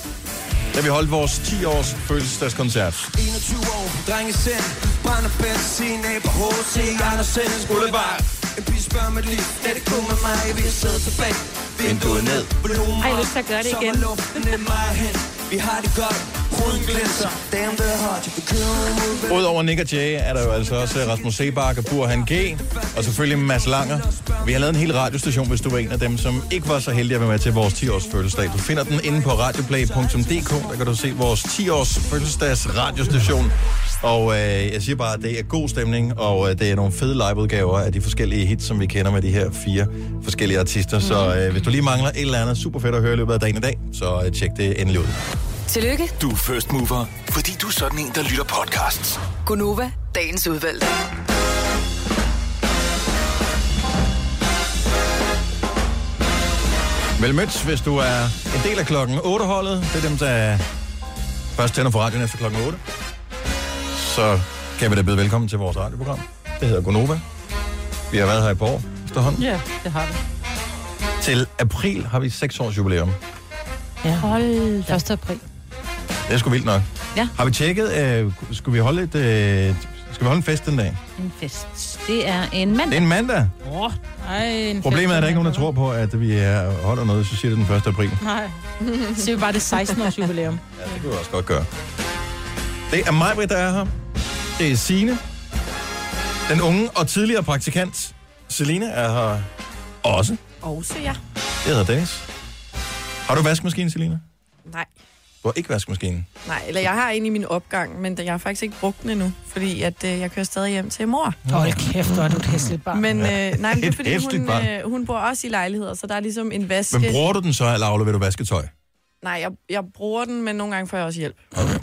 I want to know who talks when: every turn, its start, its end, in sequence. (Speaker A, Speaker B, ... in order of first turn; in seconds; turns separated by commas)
Speaker A: 0.7-3.1, Speaker B: 3.2-19.5, Speaker A: 11.8-12.5, Speaker C: 13.0-14.1, Speaker A: 19.3-45.2, Speaker B: 20.7-21.3, Speaker B: 22.7-24.7, Speaker B: 29.8-30.3, Speaker C: 41.0-41.3, Speaker D: 45.7-46.1, Speaker E: 46.2-49.2, Speaker D: 49.4-51.0, Speaker A: 57.2-60.6, Speaker A: 61.5-62.8, Speaker A: 63.9-67.2, Speaker A: 68.1-69.4, Speaker C: 69.4-70.2, Speaker A: 71.2-73.2, Speaker F: 74.0-74.3, Speaker C: 74.2-75.0, Speaker F: 74.9-75.4, Speaker A: 76.3-81.0, Speaker C: 81.2-83.0, Speaker A: 82.9-83.5, Speaker C: 83.6-84.0, Speaker F: 84.2-85.7, Speaker A: 84.8-88.2, Speaker F: 88.2-90.6, Speaker G: 88.8-89.2, Speaker A: 90.8-91.7, Speaker A: 92.9-93.9, Speaker A: 94.6-95.2, Speaker A: 96.5-99.5, Speaker A: 100.0-100.4, Speaker G: 100.6-101.2, Speaker A: 101.6-102.3, Speaker A: 103.3-104.2, Speaker A: 105.4-106.3, Speaker G: 106.4-111.4, Speaker A: 111.5-111.8, Speaker F: 111.5-113.0, Speaker G: 112.9-117.2, Speaker A: 113.2-114.7, Speaker A: 116.9-118.7, Speaker G: 119.2-121.5